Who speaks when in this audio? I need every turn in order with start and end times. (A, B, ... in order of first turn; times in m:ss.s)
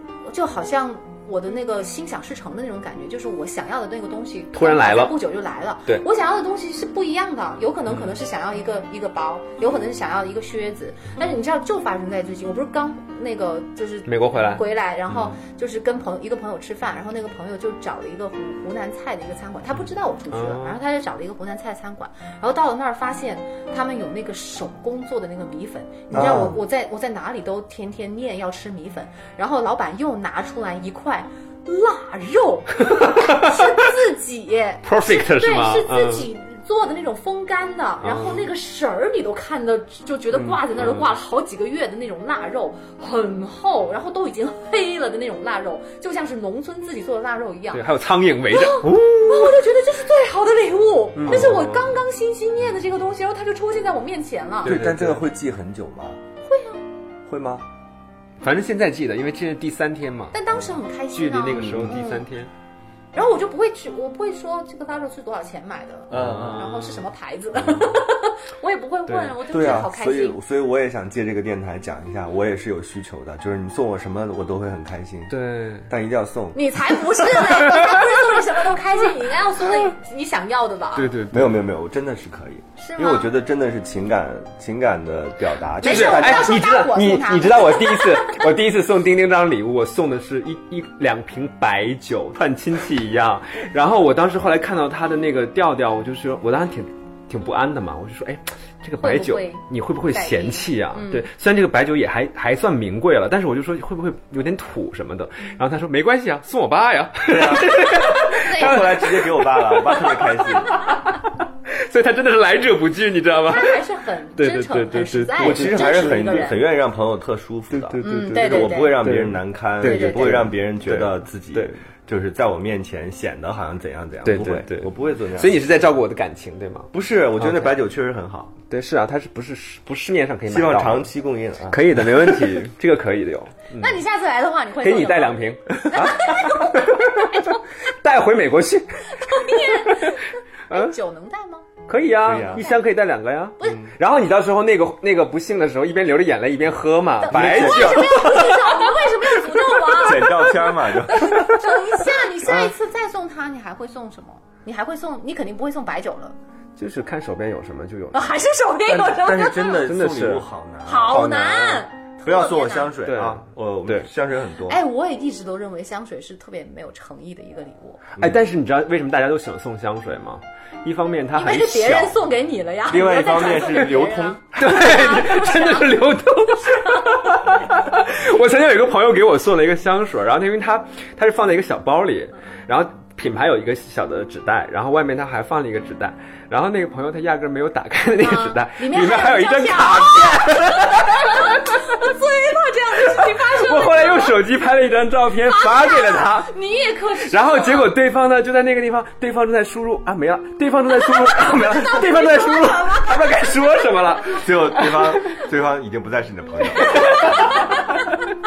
0:00.2-0:47.9 A
0:04.5-0:05.2 B
0:14.1-0:15.3 B
0:20.3-0:20.8 B
0:26.1-0:26.6 C
0:32.8-0:33.8 B
0:34.8-0:36.3 B
0:38.0-0:38.5 B
0:40.3-0:41.1 B
0:47.7-0:49.6 B
0:48.5-0:54.8 A
0:51.2-0:52.0 B
0:51.2-0:51.5 C
0:54.6-0:55.2 B
0:54.7-0:56.2 C
0:56.4-0:56.8 A
0:57.3-0:57.6 C
0:58.4-1:00.4 B
1:00.3-1:02.3 A
1:01.1-1:02.5 B
1:01.5-1:02.0 C
1:03.1-1:10.4 A
1:06.1-1:06.6 C
1:06.1-1:07.1 B
1:09.1-1:09.4 B
1:09.5-1:15.4 C
1:15.3-1:15.9 B
1:15.9-1:16.6 C
1:16.5-1:21.1 A
1:21.0-1:21.6 B
1:21.3-1:26.6 C
1:22.8-1:23.3 A
1:25.8-1:28.5 A
1:25.8-1:53.8 B
1:39.0-1:41.3 A
1:47.3-1:50.8 C
1:48.5-1:48.9 A
1:53.4-1:56.6 A
1:54.4-1:56.5 B
1:55.4-2:05.6 C
1:57.7-2:01.8 B
1:58.0-1:59.0 A
1:59.8-2:00.4 A
2:04.2-2:07.7 B
2:06.9-2:08.6 C
2:08.7-2:11.1 B
2:10.5-2:12.5 C
2:11.7-2:14.0 B
2:13.8-2:15.4 A
2:14.8-2:20.2 B
2:15.9-2:17.6 A
2:19.1-2:21.7 A
2:21.9-2:29.8 B
2:22.2-2:22.6 C
2:22.6-2:22.8 A
2:23.6-2:23.8 A
2:23.6-2:23.9 C
2:27.2-2:36.4 A
2:27.3-2:28.5 C
2:29.9-2:31.8 C
2:36.8-2:38.4 B
2:38.1-2:39.9 A
2:38.9-2:41.2 C
2:39.8-2:40.5 B
2:40.8-2:43.0 A
2:41.1-2:41.9 B
2:42.2-2:44.8 C
2:43.0-2:44.1 B
2:44.7-2:48.0 A
2:48.2-2:52.2 B
2:51.3-2:55.9 A
2:52.9-2:54.8 C
2:54.6-3:11.8 B
2:56.6-2:57.2 A
3:08.2-3:14.4 A
3:13.0-3:16.5 B
3:15.5-3:18.0 A
3:17.2-3:25.2 B
3:21.2-3:23.2 A
3:24.3-3:27.4 C
3:26.8-3:27.8 B
3:27.0-3:28.1 A